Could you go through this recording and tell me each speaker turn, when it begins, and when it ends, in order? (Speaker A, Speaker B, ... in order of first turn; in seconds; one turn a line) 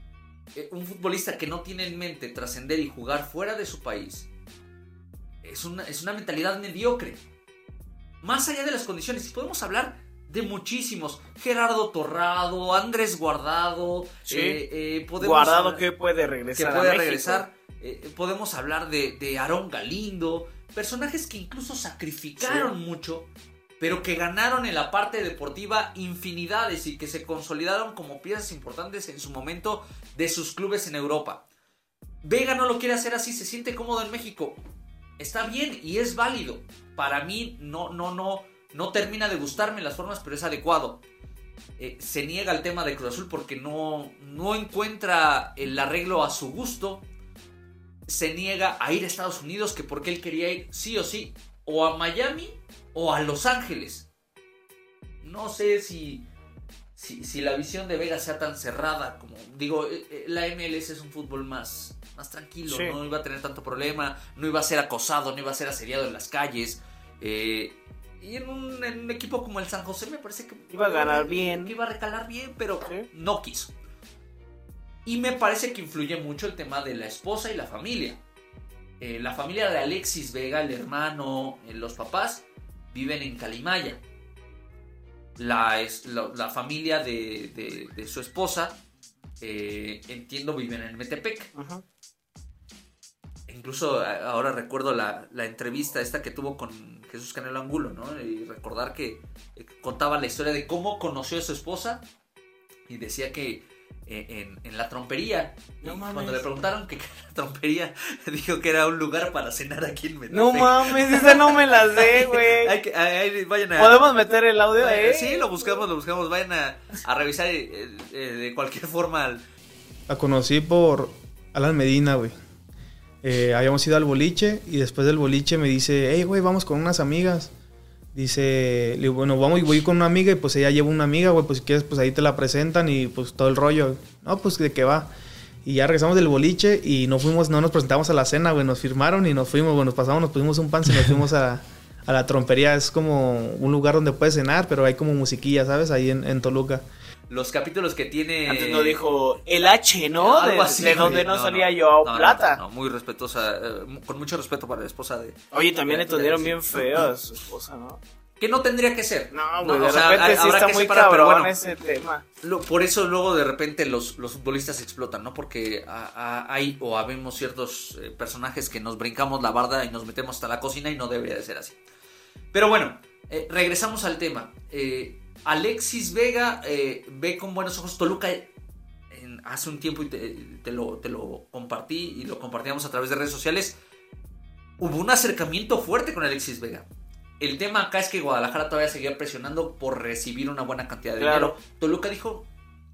Speaker A: 0.6-4.3
Speaker A: 5.4-7.2
Speaker A: 8.2-15.8
Speaker B: 14.3-14.6
Speaker B: 15.2-17.4
Speaker A: 16.6-23.3
Speaker B: 22.4-22.7
Speaker A: 23.8-31.4
Speaker A: 32.2-34.6
Speaker A: 35.2-41.0
Speaker A: 41.8-47.1
Speaker A: 48.1-54.1
Speaker A: 55.2-56.3
Speaker A: 57.0-73.7
Speaker B: 62.7-63.0
Speaker B: 70.7-71.7
Speaker A: 75.0-78.2
Speaker A: 79.0-84.0
Speaker A: 85.4-88.8
Speaker A: 89.4-91.5
Speaker B: 91.5-91.8
Speaker A: 93.5-102.0
Speaker A: 102.9-114.0
Speaker B: 105.8-106.4
Speaker B: 110.3-112.7
Speaker B: 113.8-115.8
Speaker A: 114.8-119.4
Speaker C: 120.1-122.3
Speaker C: 123.2-127.5
Speaker C: 128.1-135.1
Speaker C: 135.6-146.8
Speaker A: 147.3-149.1
Speaker B: 148.5-152.6
Speaker A: 150.2-157.0
Speaker B: 155.5-158.0
Speaker A: 158.4-161.6
Speaker B: 159.3-162.2
Speaker A: 162.4-171.8
Speaker A: 172.5-178.5
Speaker A: 179.1-183.8
Speaker A: 184.8-186.9
Speaker A: 187.4-192.5
Speaker B: 191.2-191.6